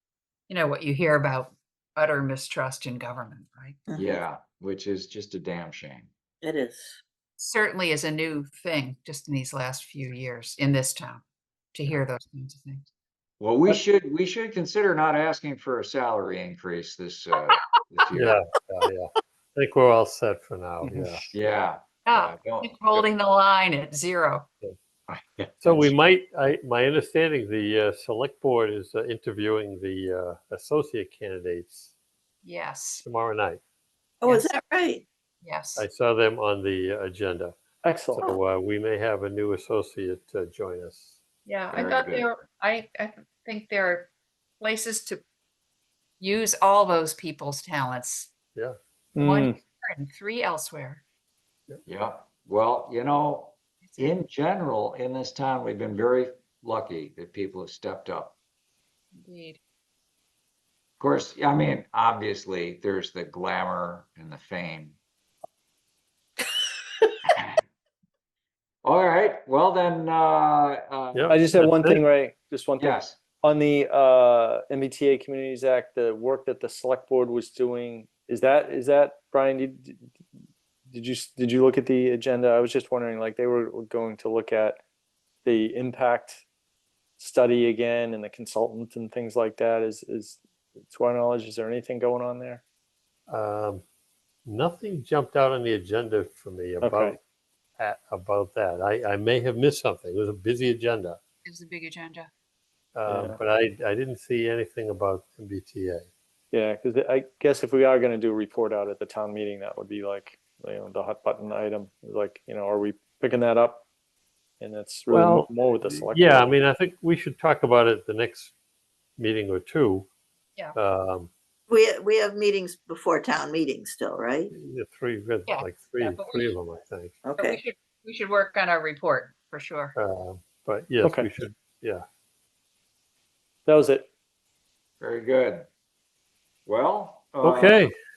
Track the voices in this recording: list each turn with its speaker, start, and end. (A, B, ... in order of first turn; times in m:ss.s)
0:00.5-0:03.8 A
0:03.9-0:04.2 B
0:04.0-0:06.1 C
0:06.4-0:07.0 B
0:07.4-0:11.2 A
0:11.7-0:12.9 A
0:13.4-0:18.4 C
0:18.1-0:21.3 D
0:20.8-0:21.3 E
0:21.3-0:23.1 C
0:22.0-0:24.5 A
0:25.1-0:26.0 C
0:25.6-0:31.9 D
0:32.4-0:33.0 A
0:33.0-0:33.6 D
0:34.2-0:35.0 B
0:34.2-0:34.5 A
0:35.4-0:35.9 A
0:35.8-0:37.6 D
0:37.8-0:38.3 E
0:38.2-0:41.2 D
0:41.5-0:45.2 A
0:41.7-0:42.3 C
0:46.2-0:48.3 A
0:49.2-0:49.6 E
0:49.2-0:51.0 A
0:51.9-0:58.4 C
0:53.8-0:54.2 A
0:59.2-0:59.6 A
1:01.0-1:05.0 C
1:07.3-1:07.6 C
1:08.8-1:11.4 C
1:11.1-1:12.0 D
1:11.3-1:20.2 E
1:12.8-1:13.2 C
1:20.9-1:24.8 E
1:25.4-1:26.4 E
1:27.2-1:32.6 E
1:33.3-1:33.8 D
1:34.5-1:37.2 D
1:36.8-1:37.2 E
1:37.8-1:41.2 D
1:41.4-1:42.3 A
1:43.0-1:46.1 D
1:43.1-1:43.4 E
1:46.5-1:53.8 E
1:54.6-1:56.6 E
1:55.1-1:58.5 D
1:59.2-2:00.1 D
2:00.8-2:01.3 D
2:01.7-2:04.5 B
2:04.5-2:07.2 D
2:05.5-2:06.6 A
2:07.2-2:07.6 B
2:07.4-2:10.0 A
2:10.0-2:12.0 D
2:13.7-2:14.1 E
2:15.0-2:15.7 C
2:16.7-2:17.9 C
2:17.4-2:17.9 D